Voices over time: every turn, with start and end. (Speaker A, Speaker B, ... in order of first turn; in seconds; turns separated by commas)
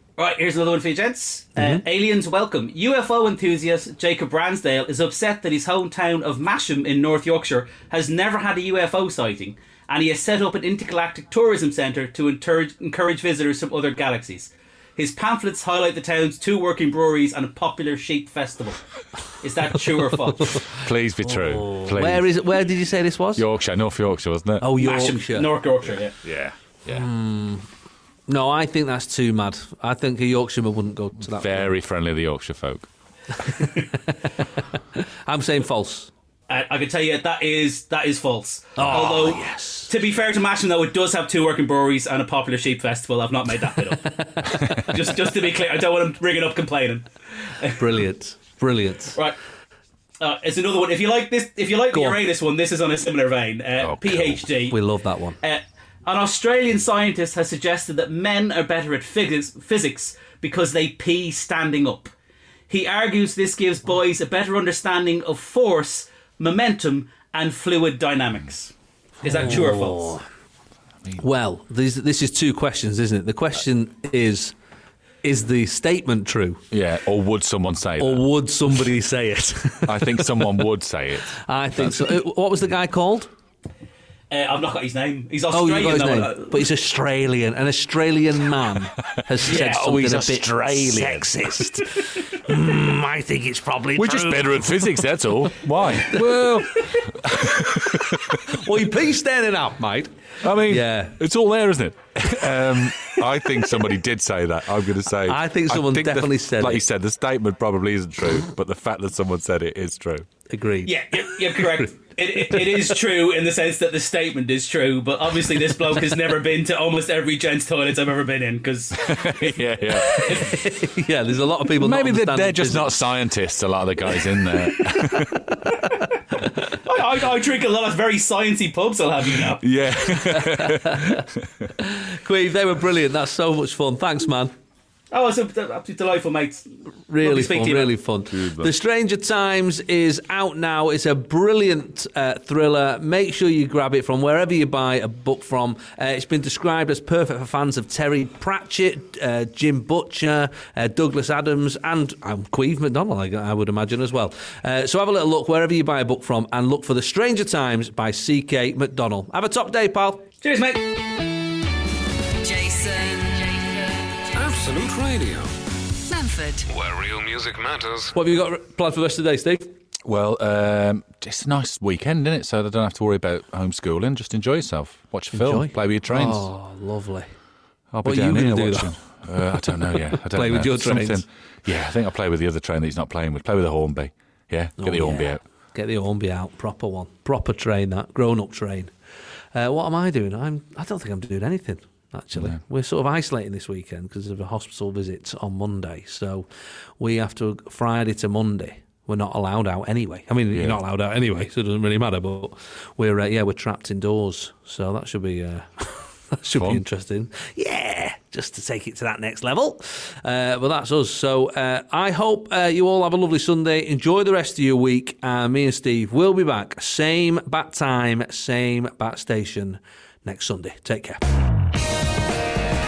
Speaker A: 0.2-18.8, Speaker B: 1.6-1.8, Speaker A: 19.4-20.6, Speaker B: 20.3-20.6, Speaker C: 20.7-22.4, Speaker B: 21.2-23.5, Speaker C: 23.3-24.7, Speaker B: 24.6-25.5, Speaker A: 24.7-26.2, Speaker C: 26.2-27.1, Speaker B: 26.9-27.7, Speaker B: 28.3-31.7, Speaker C: 31.3-32.9, Speaker B: 33.4-34.3, Speaker B: 35.0-36.1, Speaker A: 36.5-47.1, Speaker B: 38.8-39.9, Speaker B: 44.2-44.9, Speaker B: 47.7-49.2, Speaker A: 50.2-54.8, Speaker B: 51.9-52.2, Speaker C: 53.8-54.4, Speaker B: 54.7-55.4, Speaker A: 55.4-62.1, Speaker A: 62.7-70.2, Speaker B: 69.2-70.2, Speaker B: 71.2-74.5, Speaker B: 75.2-76.6, Speaker C: 76.7-78.2, Speaker B: 78.0-80.7, Speaker C: 79.8-82.2, Speaker B: 81.3-83.3, Speaker A: 84.3-86.7, Speaker B: 85.5-97.0, Speaker C: 89.3-91.8, Speaker A: 89.5-89.8, Speaker C: 94.0-98.6, Speaker B: 97.6-101.2, Speaker C: 100.4-110.3, Speaker B: 105.2-106.8, Speaker B: 110.5-113.0, Speaker A: 110.8-119.5, Speaker C: 118.9-120.6, Speaker B: 119.9-123.0, Speaker A: 120.1-120.5, Speaker C: 121.7-125.5, Speaker B: 124.4-126.1, Speaker A: 126.7-129.6, Speaker C: 129.5-131.7, Speaker B: 130.1-131.2, Speaker B: 131.8-134.5, Speaker A: 135.1-136.7, Speaker B: 137.1-160.3, Speaker A: 137.2-137.9, Speaker C: 138.3-138.7, Speaker A: 160.4-161.0, Speaker D: 162.4-164.5, Speaker E: 164.3-165.5, Speaker D: 166.1-166.7, Speaker E: 166.7-168.1, Speaker B: 168.1-169.7, Speaker C: 170.0-176.5, Speaker B: 175.3-177.3, Speaker C: 177.9-185.4, Speaker B: 178.0-179.0, Speaker B: 179.8-181.2, Speaker B: 184.8-188.9, Speaker B: 189.5-196.4, Speaker B: 197.0-221.2, Speaker C: 200.5-200.8, Speaker C: 206.5-206.8